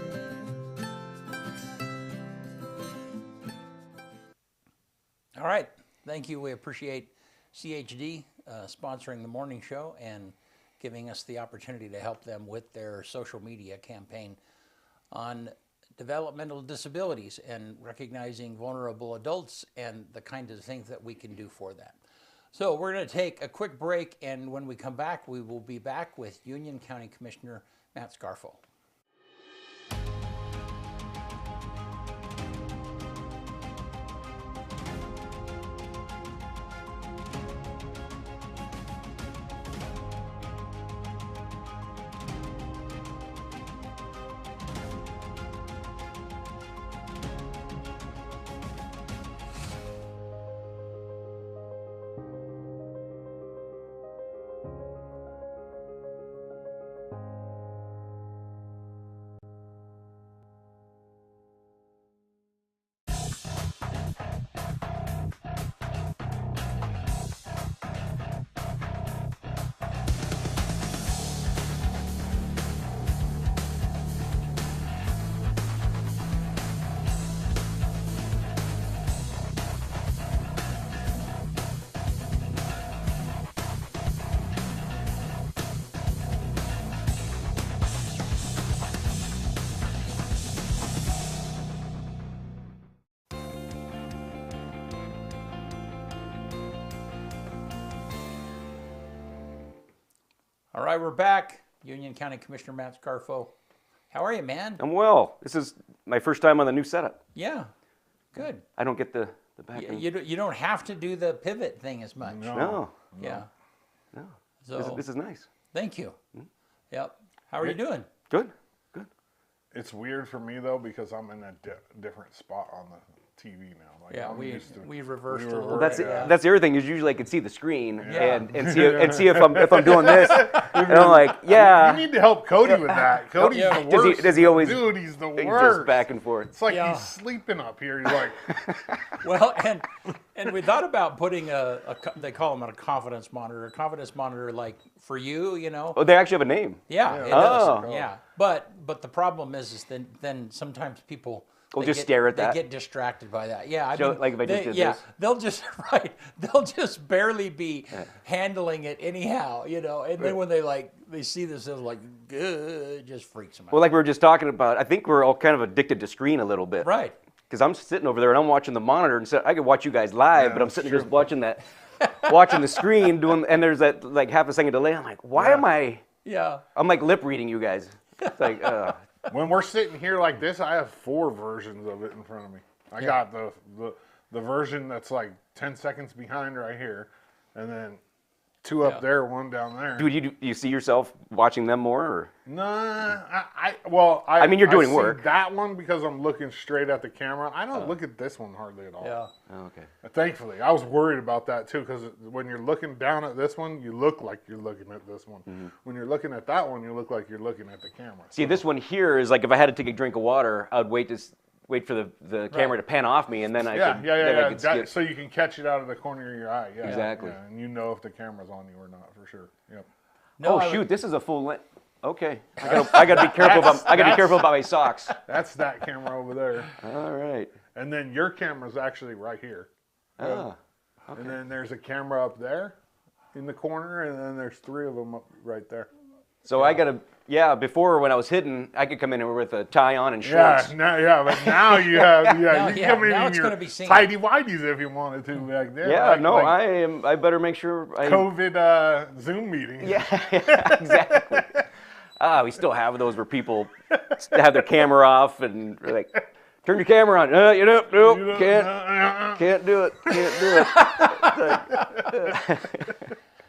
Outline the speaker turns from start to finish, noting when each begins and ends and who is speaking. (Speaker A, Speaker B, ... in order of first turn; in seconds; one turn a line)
Speaker A: 5.3-14.4
Speaker A: 15.1-22.0
Speaker A: 22.5-28.6
Speaker A: 100.7-103.5
Speaker A: 104.1-104.8
Speaker B: 104.8-107.2
Speaker A: 107.3-107.7
Speaker A: 108.3-108.6
Speaker B: 108.8-110.0
Speaker A: 109.7-112.5
Speaker C: 112.2-113.4
Speaker B: 112.5-112.9
Speaker A: 113.2-113.5
Speaker B: 114.1-115.5
Speaker A: 114.6-115.0
Speaker A: 115.7-116.2
Speaker A: 116.9-118.1
Speaker B: 118.3-119.1
Speaker C: 119.7-126.4
Speaker A: 124.1-126.3
Speaker B: 125.7-132.1
Speaker C: 128.0-138.5
Speaker A: 128.0-128.4
Speaker B: 133.4-136.5
Speaker A: 133.4-133.8
Speaker A: 136.7-137.1
Speaker A: 139.2-146.0
Speaker B: 145.9-147.9
Speaker A: 146.9-163.8
Speaker C: 147.0-148.1
Speaker B: 151.7-152.6
Speaker B: 153.9-155.0
Speaker B: 163.7-166.9
Speaker A: 166.8-167.2
Speaker B: 167.5-171.6
Speaker C: 170.3-171.3
Speaker A: 172.0-172.8
Speaker B: 172.2-176.0
Speaker C: 175.4-175.6
Speaker A: 176.2-176.6
Speaker B: 176.7-179.0
Speaker A: 178.2-179.3
Speaker C: 179.3-188.0
Speaker C: 188.6-190.1
Speaker B: 190.0-192.3
Speaker C: 192.4-199.1
Speaker B: 194.4-195.2
Speaker A: 199.0-199.3
Speaker B: 199.5-199.9
Speaker C: 200.0-208.6
Speaker B: 208.3-214.9
Speaker A: 212.5-212.8
Speaker C: 213.7-219.9
Speaker B: 216.8-217.4
Speaker A: 220.4-220.9
Speaker B: 220.4-225.1
Speaker C: 222.6-224.6
Speaker C: 225.2-226.8
Speaker B: 226.8-227.5
Speaker C: 227.7-230.5
Speaker B: 230.2-230.6
Speaker C: 231.1-232.7
Speaker C: 233.3-235.9
Speaker B: 236.4-240.7
Speaker C: 240.2-246.6
Speaker B: 241.3-242.3
Speaker A: 242.5-244.1
Speaker B: 245.8-248.3
Speaker C: 248.0-251.6
Speaker B: 249.8-251.6
Speaker B: 252.2-263.0
Speaker C: 257.9-259.4
Speaker C: 260.1-260.7
Speaker A: 260.5-261.5
Speaker C: 261.7-262.2